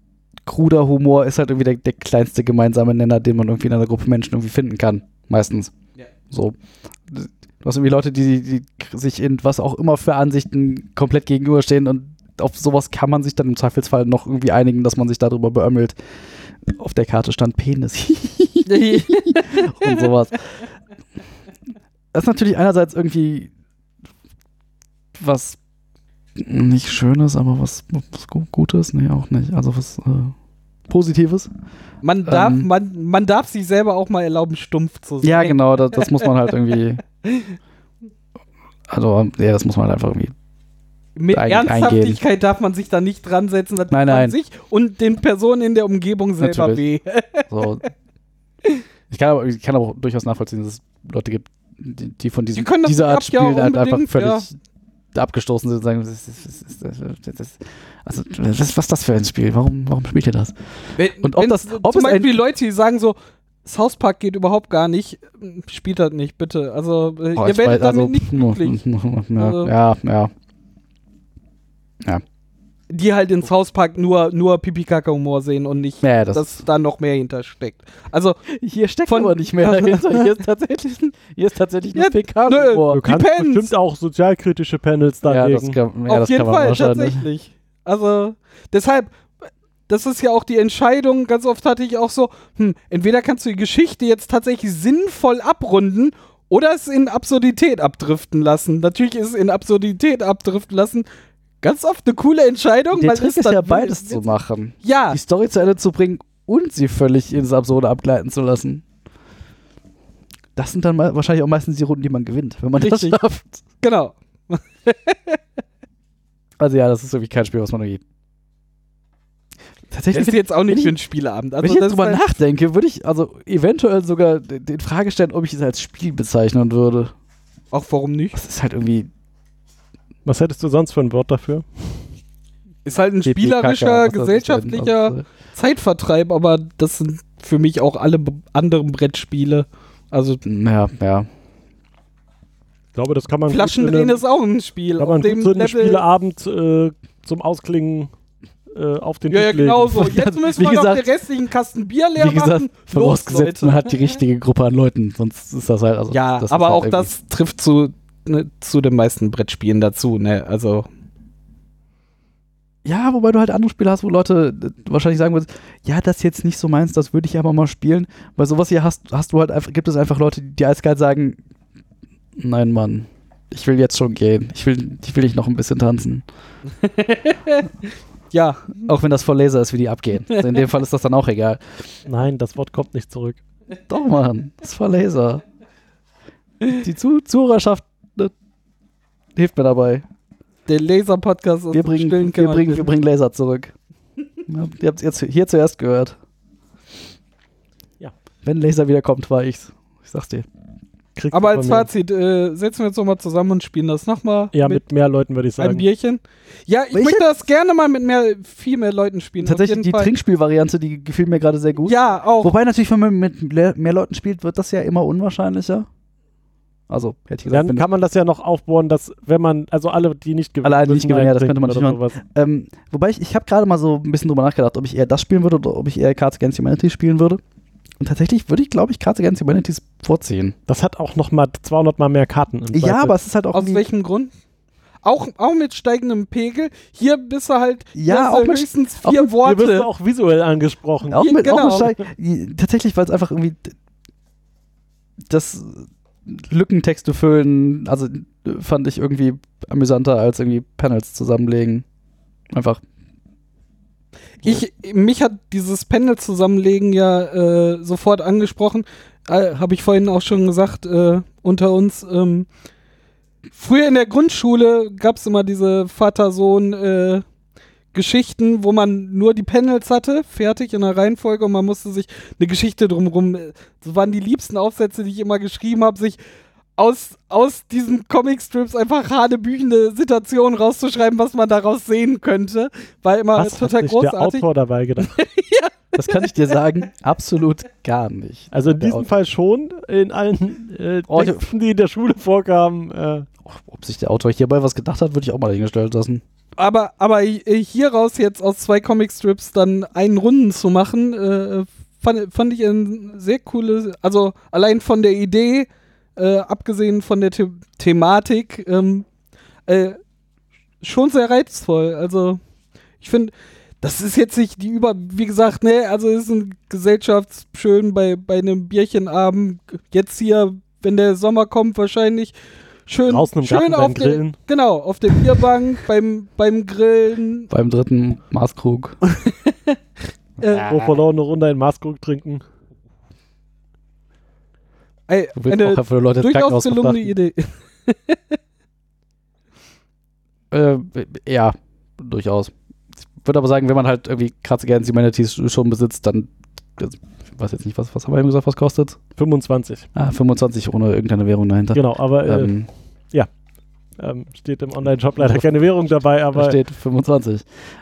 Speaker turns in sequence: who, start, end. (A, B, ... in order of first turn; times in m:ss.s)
0:00.4-0:05.7 A
0:06.3-0:06.6 A
0:07.1-0:16.0 A
0:16.7-0:20.4 A
0:18.7-0:20.1 B
0:22.1-0:23.5 A
0:25.2-0:25.6 A
0:26.4-0:30.3 A
0:30.9-0:31.5 A
0:32.0-0:36.3 B
0:32.3-0:32.7 A
0:35.2-0:37.0 A
0:37.2-0:37.6 B
0:38.9-0:40.3 A
0:41.2-0:47.6 B
0:41.3-0:42.2 A
0:43.9-0:44.4 A
0:46.4-0:46.8 A
0:47.5-0:47.9 A
0:49.1-0:54.5 A
0:52.5-0:54.4 B
0:55.1-1:00.5 A
1:01.0-1:08.8 B
1:01.2-1:02.4 A
1:07.4-1:10.3 A
1:09.4-1:09.7 B
1:12.9-1:18.4 B
1:16.0-1:16.6 A
1:18.5-1:23.0 A
1:19.1-1:20.3 B
1:22.0-1:23.7 B
1:22.9-1:25.8 C
1:25.3-1:27.2 A
1:26.1-1:29.1 B
1:29.9-1:41.1 B
1:41.6-1:44.3 B
1:42.9-1:48.8 A
1:44.8-1:45.2 B
1:50.6-1:53.6 A
1:52.8-1:53.2 B
1:53.8-1:55.4 B
1:56.6-1:58.0 A
1:59.9-2:01.0 A
2:00.1-2:02.2 B
2:01.6-2:07.1 A
2:07.7-2:08.4 B
2:08.3-2:09.1 A
2:10.2-2:12.0 C
2:12.8-2:20.4 B
2:13.2-2:15.2 A
2:20.4-2:21.3 A
2:23.0-2:24.2 C
2:23.5-2:26.0 B
2:25.0-2:28.1 C
2:28.7-2:30.1 C
2:29.3-2:34.2 B
2:30.0-2:31.1 A
2:32.2-2:37.1 A
2:36.1-2:40.9 B
2:42.8-2:51.4 A
2:52.4-2:56.2 A
2:56.8-2:58.8 B
2:58.8-3:01.9 A
3:02.1-3:03.4 C
3:03.9-3:05.4 A
3:06.6-3:08.3 A
3:09.4-3:10.0 A
3:10.7-3:12.9 B
3:11.7-3:13.7 A
3:14.5-3:16.2 A
3:18.4-3:20.5 A
3:21.2-3:21.9 C
3:21.3-3:24.8 B
3:24.5-3:25.8 C
3:25.6-3:30.1 B
3:26.9-3:27.3 A
3:29.4-3:35.9 A
3:31.8-3:32.5 B
3:36.9-3:37.8 A
3:37.5-3:42.2 C
3:40.6-3:47.4 A
3:48.0-3:50.6 A
3:50.7-3:53.2 C
3:52.7-3:53.8 A
3:53.5-3:54.3 B
3:55.0-3:59.9 B
3:58.0-3:59.3 A
3:59.4-4:01.2 C
4:01.1-4:03.7 A
4:01.2-4:01.9 B
4:05.3-4:11.8 A
4:12.5-4:12.8 A
4:14.4-4:22.5 B
4:23.6-4:27.2 B
4:27.9-4:36.2 B
4:36.8-4:44.5 B
4:43.4-4:45.2 C
4:45.0-4:46.3 B
4:45.9-4:49.1 A
4:48.5-4:53.3 C
4:51.1-4:51.5 A
4:53.5-4:56.2 A
4:56.6-5:09.1 B
5:09.7-5:10.0 B
5:10.8-5:12.4 B
5:13.0-5:22.4 B
5:22.9-5:27.5 B
5:23.1-5:24.4 C
5:27.5-5:29.0 A
5:29.2-5:29.8 B
5:30.4-5:30.7 B
5:30.4-5:30.8 A
5:30.7-5:32.4 C
5:35.1-5:38.4 B
5:35.4-5:37.1 A
5:40.5-5:42.5 A
5:43.2-5:49.0 A
5:49.2-5:49.9 C
5:50.0-5:52.7 A
5:51.7-5:52.5 C
5:54.0-5:56.6 C
5:55.2-5:55.5 A
5:56.3-5:57.5 A